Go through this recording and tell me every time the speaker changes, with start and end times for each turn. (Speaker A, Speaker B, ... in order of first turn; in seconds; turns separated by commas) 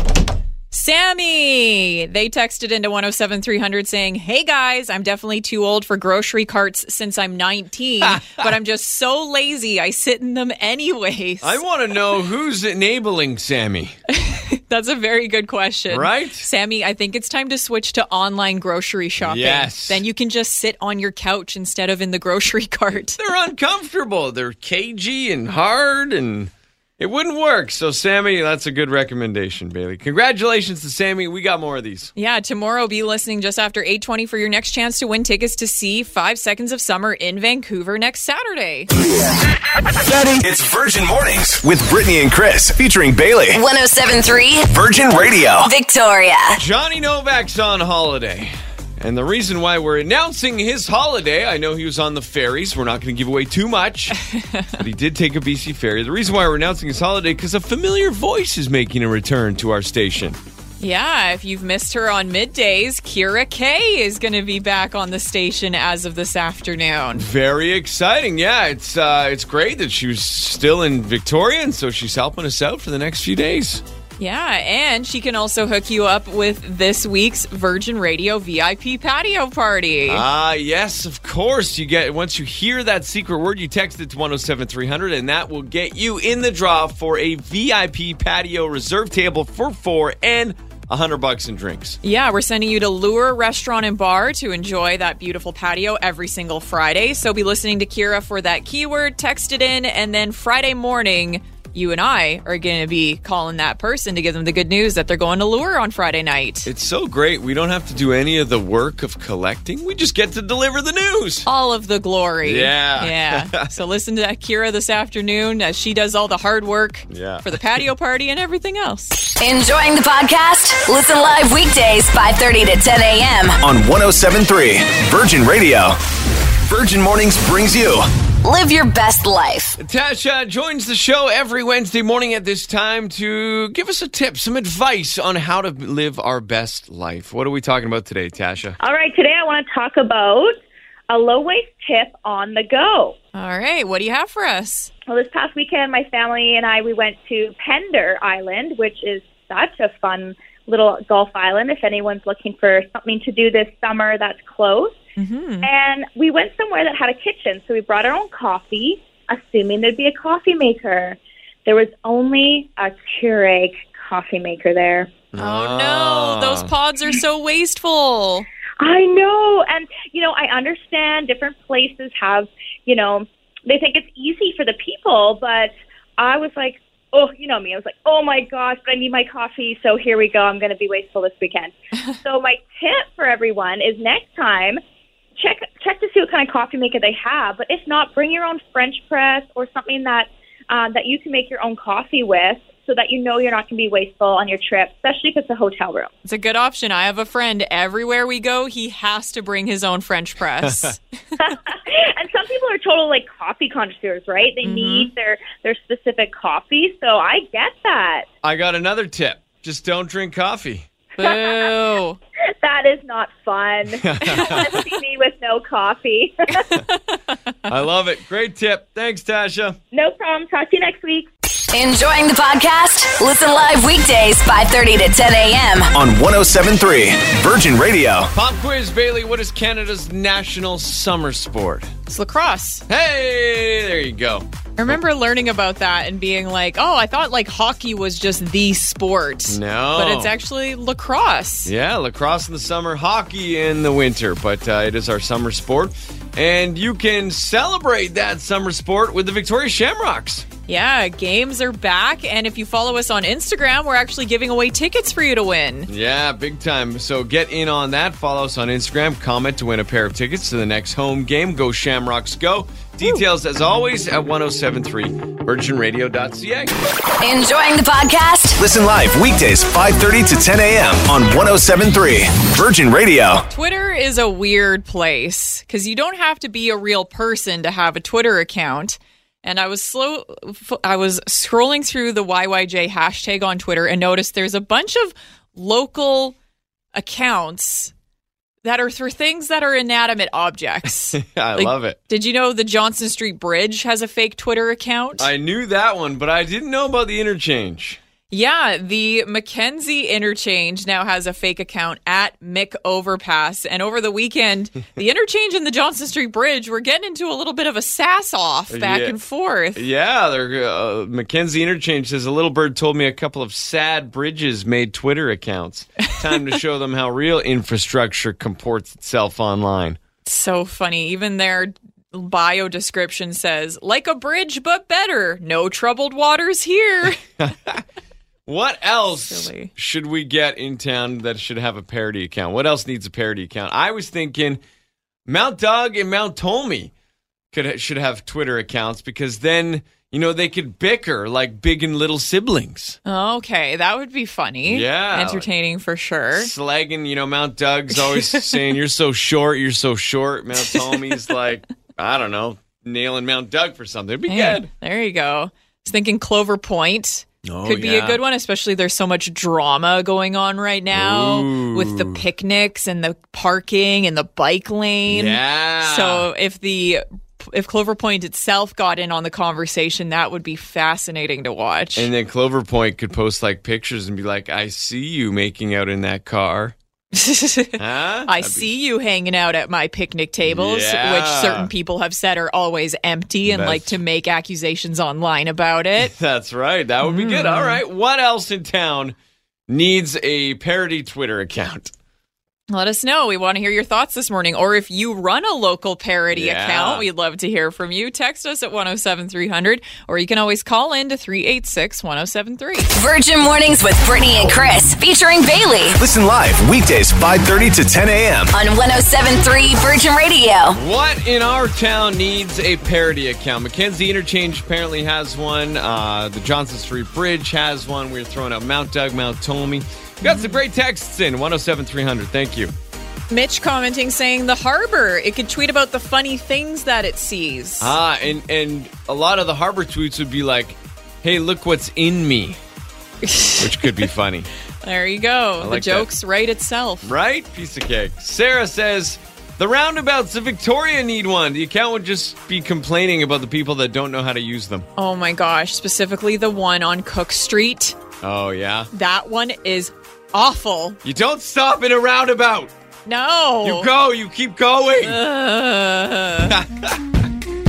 Speaker A: 0.7-11.6, Speaker B: 8.1-8.3, Speaker B: 11.4-14.0, Speaker A: 14.1-23.2, Speaker B: 15.9-16.5, Speaker B: 19.2-20.0, Speaker B: 23.1-32.1, Speaker A: 32.2-38.9, Speaker C: 40.1-43.6, Speaker D: 43.7-44.6, Speaker C: 44.7-45.7, Speaker D: 45.8-46.3, Speaker B: 46.5-54.1, Speaker B: 54.8-60.4, Speaker A: 60.8-67.3, Speaker B: 67.2-73.8, Speaker A: 74.2-80.2, Speaker B: 80.1-92.0, Speaker A: 92.0-106.7, Speaker B: 106.7-111.5, Speaker A: 111.5-119.2, Speaker B: 112.4-113.7, Speaker B: 117.1-117.5, Speaker D: 119.5-123.5, Speaker C: 123.6-126.0, Speaker C: 126.6-128.1, Speaker D: 128.4-129.8, Speaker B: 129.8-138.8, Speaker E: 138.8-140.6, Speaker E: 141.1-143.2, Speaker A: 143.3-144.9, Speaker E: 145.1-155.0, Speaker A: 155.2-155.7, Speaker E: 155.6-165.1, Speaker B: 165.3-166.7, Speaker A: 165.4-168.5, Speaker E: 168.8-184.8, Speaker E: 185.4-196.1, Speaker A: 196.2-201.0, Speaker B: 200.6-200.9, Speaker E: 201.4-208.3, Speaker A: 204.6-205.1, Speaker B: 208.4-210.9, Speaker A: 211.2-212.2, Speaker E: 211.2-211.6, Speaker E: 212.6-216.8, Speaker B: 214.0-214.8, Speaker B: 217.7-219.8, Speaker E: 219.9-221.3, Speaker D: 221.8-225.9, Speaker C: 225.9-228.3, Speaker B: 228.3-231.9, Speaker A: 232.1-232.8, Speaker B: 232.9-235.0, Speaker A: 234.8-241.7, Speaker B: 239.5-240.3, Speaker B: 241.7-250.5, Speaker A: 250.7-255.9, Speaker B: 255.9-266.8, Speaker D: 267.2-268.5, Speaker C: 268.6-273.5, Speaker A: 273.5-286.4, Speaker A: 286.9-287.9, Speaker A: 288.6-295.3, Speaker B: 291.1-292.0, Speaker B: 295.2-298.0, Speaker A: 298.3-309.8, Speaker B: 308.7-309.2, Speaker B: 309.8-320.0, Speaker A: 320.2-327.2, Speaker B: 327.4-327.8, Speaker B: 328.5-334.6, Speaker A: 329.1-329.7, Speaker B: 335.3-336.9, Speaker B: 337.5-343.0, Speaker A: 343.1-346.5, Speaker B: 344.7-345.5, Speaker B: 346.3-354.7, Speaker A: 348.1-348.6, Speaker A: 350.8-351.1, Speaker A: 354.3-372.1, Speaker B: 357.4-358.2, Speaker B: 360.9-362.2, Speaker B: 365.1-366.3, Speaker B: 372.0-376.8, Speaker A: 377.1-386.1, Speaker B: 377.8-378.7, Speaker B: 380.4-381.7, Speaker B: 383.4-384.0, Speaker B: 386.0-389.1, Speaker A: 387.0-387.8, Speaker B: 389.7-391.9, Speaker A: 392.7-402.9, Speaker B: 396.3-397.1, Speaker D: 403.1-405.9, Speaker C: 406.0-408.6, Speaker D: 408.6-410.7, Speaker B: 410.7-422.7, Speaker A: 420.2-420.6, Speaker A: 423.3-427.9, Speaker B: 427.8-432.6, Speaker A: 433.2-433.9, Speaker B: 433.6-434.5, Speaker A: 434.8-437.1, Speaker B: 435.6-436.1, Speaker B: 437.0-444.9, Speaker A: 445.0-448.0, Speaker B: 448.2-448.9, Speaker A: 448.9-451.0, Speaker B: 451.0-452.7, Speaker A: 453.1-453.9, Speaker B: 453.6-455.2, Speaker A: 455.0-456.6, Speaker B: 456.5-457.0